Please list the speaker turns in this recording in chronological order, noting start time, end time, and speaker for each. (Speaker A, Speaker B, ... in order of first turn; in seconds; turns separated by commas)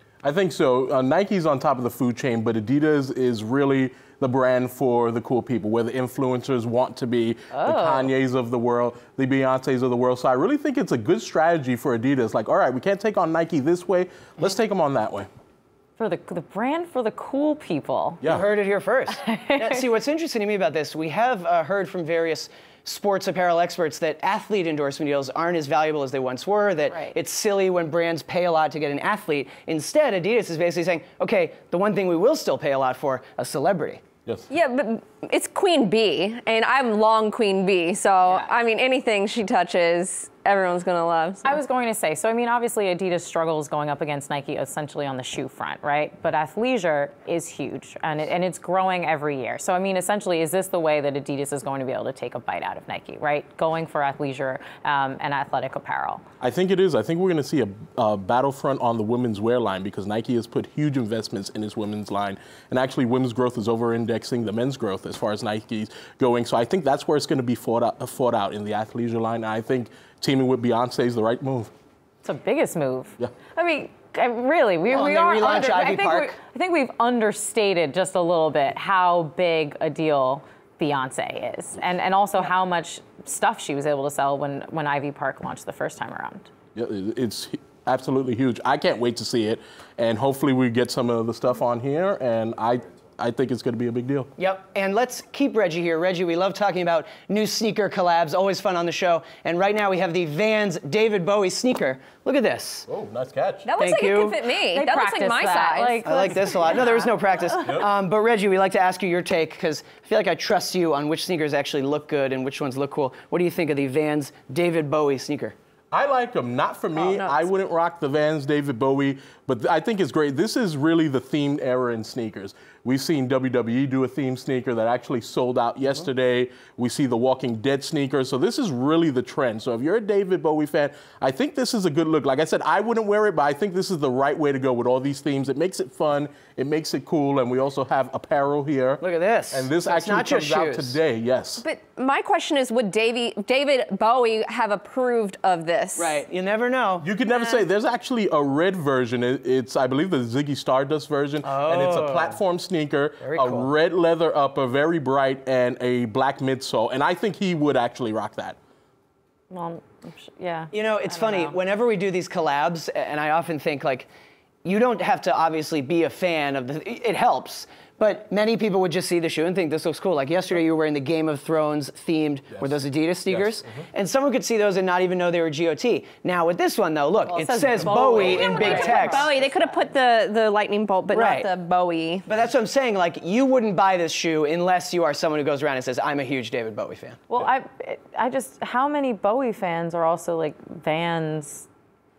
Speaker A: 0.2-15.3, Speaker B: 7.5-8.1, Speaker B: 16.0-18.2, Speaker A: 18.2-18.5, Speaker C: 18.2-34.0, Speaker B: 19.2-19.8, Speaker B: 26.9-27.2, Speaker D: 34.5-41.5, Speaker B: 38.2-38.5, Speaker B: 41.4-56.2, Speaker A: 56.4-71.7, Speaker B: 72.2-86.5, Speaker C: 74.9-76.3, Speaker A: 86.8-94.3, Speaker C: 94.4-102.9, Speaker A: 102.9-103.7, Speaker D: 103.7-106.1, Speaker C: 103.8-104.4, Speaker B: 104.7-107.2, Speaker C: 106.0-115.5, Speaker A: 115.9-141.6, Speaker D: 116.9-117.4, Speaker C: 139.0-141.0, Speaker D: 141.6-146.2, Speaker C: 146.0-147.1, Speaker A: 147.0-158.6, Speaker D: 147.3-147.6, Speaker C: 151.4-152.4, Speaker C: 153.2-153.7, Speaker B: 159.5-161.6, Speaker C: 160.7-164.1, Speaker C: 164.7-179.3, Speaker A: 172.5-172.8, Speaker A: 173.3-173.8, Speaker B: 177.3-179.9, Speaker A: 177.8-178.7, Speaker D: 178.2-182.2, Speaker C: 181.1-181.5, Speaker C: 182.2-187.2, Speaker B: 187.3-191.7